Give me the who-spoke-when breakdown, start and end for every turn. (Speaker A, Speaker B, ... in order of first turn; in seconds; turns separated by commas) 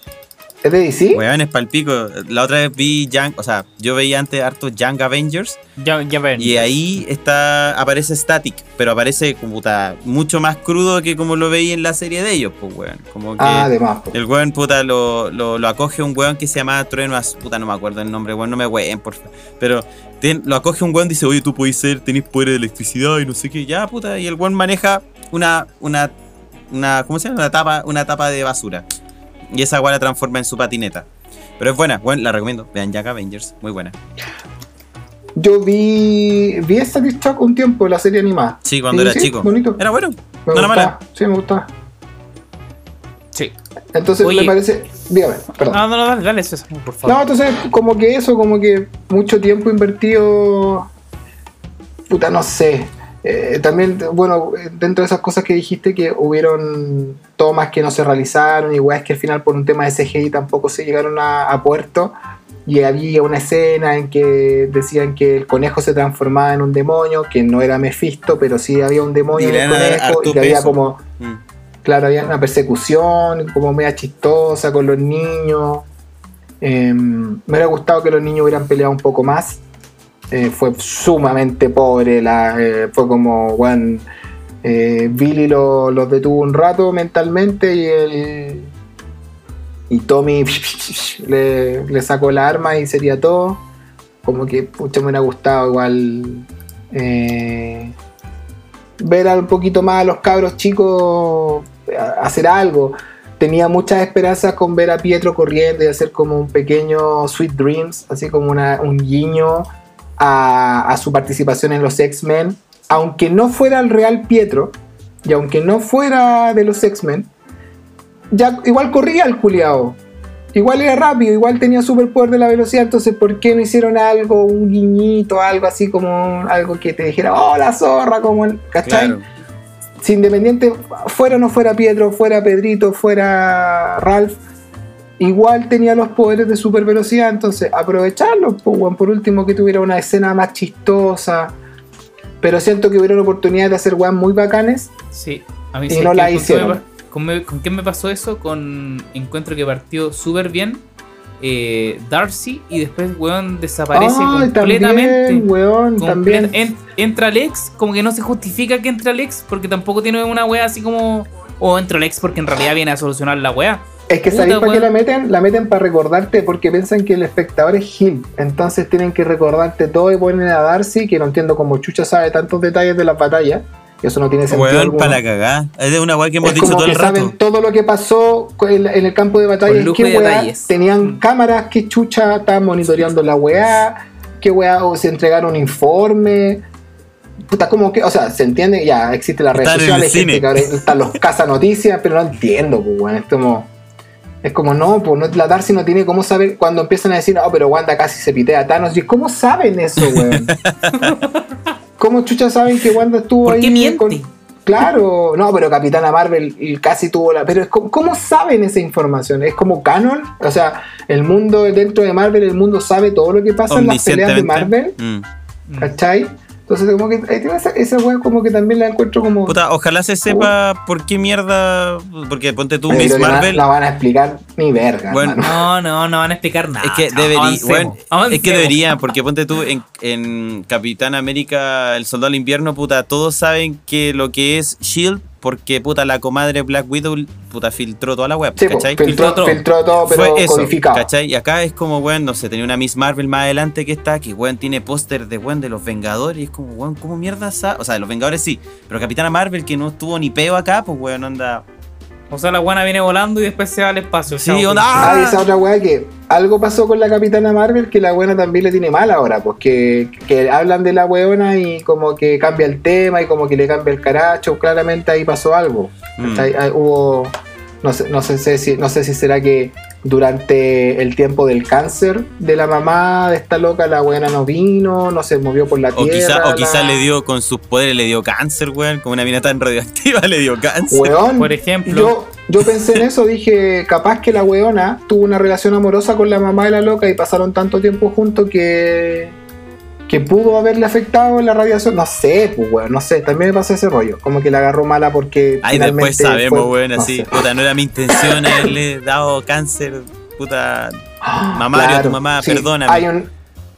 Speaker A: 0.6-1.2, Speaker B: 1.1-5.6, Speaker C: 5.8-6.7, Speaker B: 6.4-26.1, Speaker A: 13.4-14.2, Speaker B: 26.7-28.8, Speaker B: 29.5-31.1, Speaker B: 31.6-33.9, Speaker A: 35.4-39.8, Speaker B: 38.6-40.9, Speaker A: 40.5-41.7, Speaker A: 43.9-45.8, Speaker C: 44.2-44.5, Speaker C: 45.6-47.2, Speaker A: 47.0-50.9, Speaker A: 52.1-71.0, Speaker B: 69.4-71.4, Speaker A: 71.8-75.8, Speaker A: 76.6-79.6, Speaker A: 80.3-84.1, Speaker A: 84.6-88.7, Speaker A: 89.9-93.6, Speaker A: 94.2-97.9, Speaker A: 99.0-117.3, Speaker A: 118.3-120.0, Speaker A: 120.5-129.2, Speaker B: 128.8-129.2, Speaker A: 130.0-134.4, Speaker A: 135.2-141.5, Speaker A: 142.4-144.9, Speaker C: 145.1-150.8, Speaker A: 145.9-146.8, Speaker C: 151.4-164.9, Speaker A: 153.9-156.6, Speaker A: 164.1-175.2, Speaker B: 174.5-177.3, Speaker A: 176.4-186.6, Speaker C: 179.7-181.2, Speaker A: 187.5-193.7, Speaker B: 189.5-190.9, Speaker A: 194.4-200.5, Speaker B: 200.0-200.7, Speaker C: 200.9-201.4, Speaker A: 202.0-215.0, Speaker C: 203.4-204.3, Speaker B: 213.7-215.2, Speaker C: 215.7-215.9, Speaker A: 215.8-219.6, Speaker B: 219.5-223.6, Speaker A: 220.2-220.5, Speaker A: 222.9-225.6, Speaker B: 225.1-225.4, Speaker C: 225.4-228.9, Speaker B: 226.8-239.0, Speaker A: 238.6-241.1, Speaker C: 239.0-239.6, Speaker B: 240.0-251.6, Speaker C: 252.3-255.2, Speaker B: 254.3-255.4, Speaker A: 255.0-277.1, Speaker B: 266.2-266.5, Speaker B: 275.9-281.1, Speaker A: 280.9-289.4, Speaker C: 281.4-282.1, Speaker A: 290.1-297.4, Speaker B: 295.6-301.0, Speaker A: 298.2-298.7, Speaker A: 301.2-303.3, Speaker B: 301.5-303.0